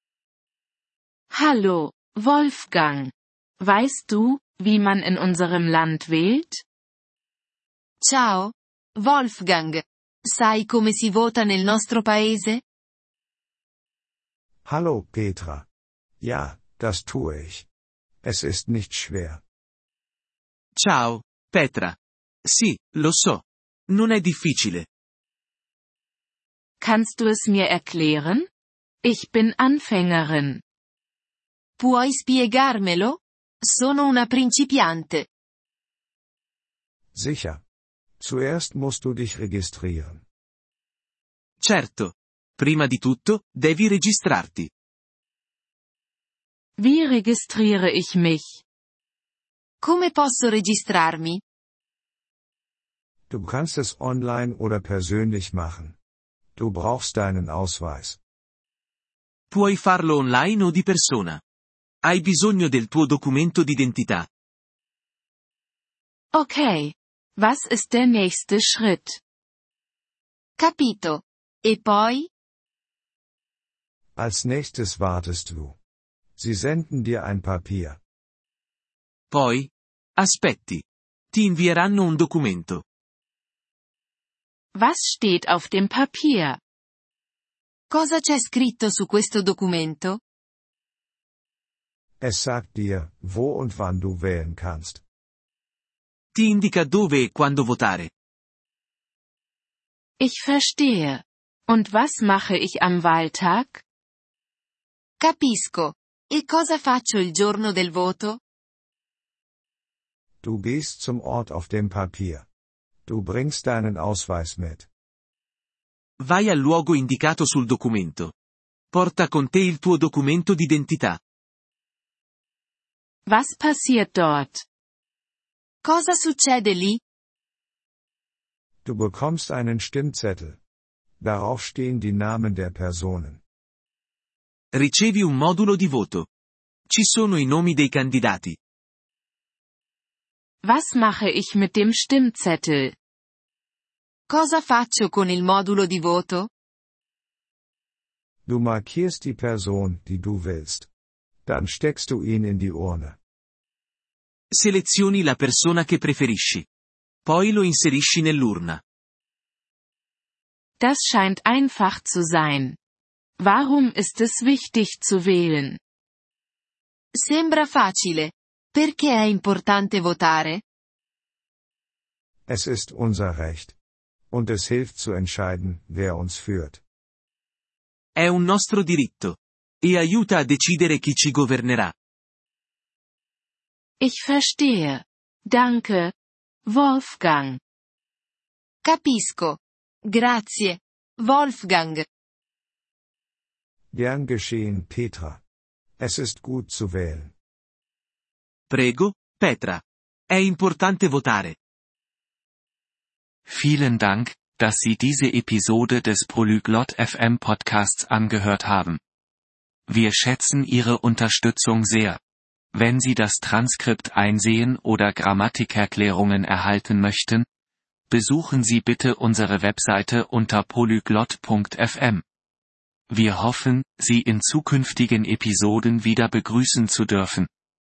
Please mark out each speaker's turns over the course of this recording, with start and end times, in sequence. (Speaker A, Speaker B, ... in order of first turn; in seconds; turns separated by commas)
Speaker A: 1.3-6.6, Speaker B: 8.0-12.6, Speaker C: 14.7-15.7, Speaker C: 16.2-17.7, Speaker C: 18.2-19.4, Speaker D: 20.8-24.9, Speaker A: 26.8-28.5, Speaker A: 29.0-30.6, Speaker B: 31.8-35.3, Speaker C: 37.1-37.6, Speaker C: 38.2-40.2, Speaker D: 41.6-44.7, Speaker A: 46.8-48.6, Speaker B: 49.8-51.4, Speaker C: 53.3-56.0, Speaker C: 56.6-58.2, Speaker D: 59.5-61.4, Speaker D: 62.0-64.3, Speaker A: 66.3-69.2, Speaker B: 70.6-72.3, Speaker C: 74.2-75.8, Speaker C: 76.4-78.0, Speaker D: 79.3-82.8, Speaker A: 84.8-86.6, Speaker B: 87.9-90.2, Speaker C: 92.2-95.0, Speaker D: 96.3-98.1, Speaker A: 100.2-103.8, Speaker B: 105.2-108.4, Speaker C: 110.4-112.5, Speaker C: 113.1-114.9, Speaker D: 116.2-118.3, Speaker D: 118.9-121.2, Speaker A: 123.3-124.6, Speaker B: 125.8-127.0, Speaker C: 128.8-130.6, Speaker C: 131.2-133.4, Speaker D: 134.7-136.3, Speaker D: 136.9-138.6, Speaker A: 140.6-142.9, Speaker B: 144.3-146.5, Speaker C: 148.5-150.9, Speaker C: 151.5-153.2, Speaker D: 154.5-156.7, Speaker D: 157.3-158.8, Speaker A: 160.8-162.8, Speaker A: 163.4-165.8, Speaker B: 167.2-170.6, Speaker C: 172.5-173.8, Speaker C: 174.3-176.8, Speaker D: 178.2-181.9, Speaker A: 184.0-186.1, Speaker A: 186.7-187.6, Speaker B: 188.8-192.1, Speaker C: 193.9-195.4, Speaker C: 196.0-197.3, Speaker D: 198.7-201.6, Speaker E: 203.5-209.0, Speaker E: 209.9-212.2, Speaker E: 212.7-217.5, Speaker E: 218.1-222.2, Speaker E: 223.1-227.5